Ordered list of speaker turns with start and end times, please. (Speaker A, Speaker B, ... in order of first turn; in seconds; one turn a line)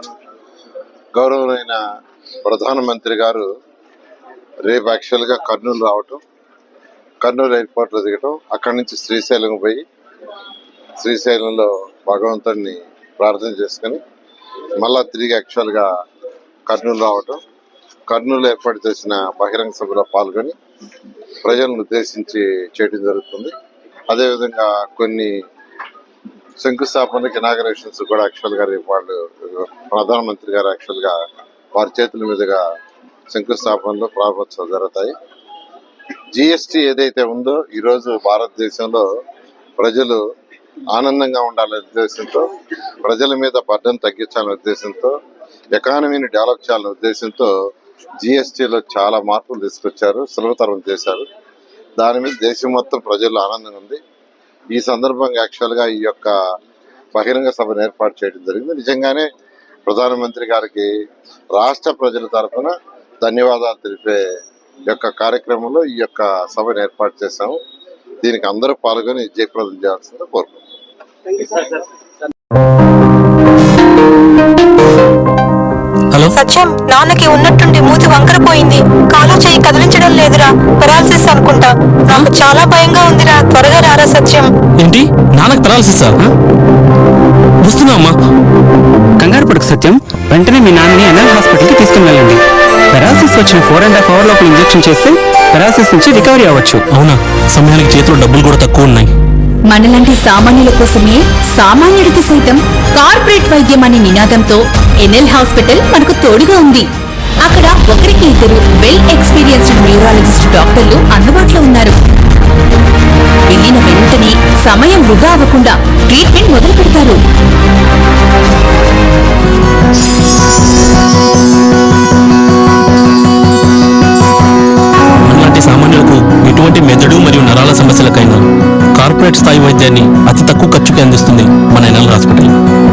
Speaker A: 1.1-1.8
Speaker A: 2.4-3.5
Speaker A: 4.7-6.2
Speaker A: 7.2-9.8
Speaker A: 11.0-14.0
Speaker A: 14.8-15.9
Speaker A: 16.7-17.4
Speaker A: 18.1-20.6
Speaker A: 21.4-23.5
Speaker A: 24.1-25.4
Speaker A: 26.6-31.2
Speaker A: 31.8-32.6
Speaker A: 33.3-35.1
Speaker A: 36.3-39.1
Speaker A: 39.8-40.2
Speaker A: 40.9-42.5
Speaker A: 43.0-45.2
Speaker A: 45.7-47.5
Speaker A: 48.2-51.3
Speaker A: 52.0-54.0
Speaker A: 54.7-56.4
Speaker A: 57.1-59.3
Speaker A: 59.9-60.9
Speaker A: 61.5-64.2
Speaker A: 64.9-67.6
Speaker A: 68.2-70.6
Speaker A: 71.5-71.8
Speaker B: 76.3-84.5
Speaker C: 84.8-86.2
Speaker C: 87.7-88.2
Speaker D: 89.2-96.8
Speaker C: 96.9-99.1
Speaker E: 99.7-106.9
Speaker E: 107.4-112.0
Speaker E: 113.5-117.2
Speaker C: 125.2-128.4
Speaker C: 129.0-132.5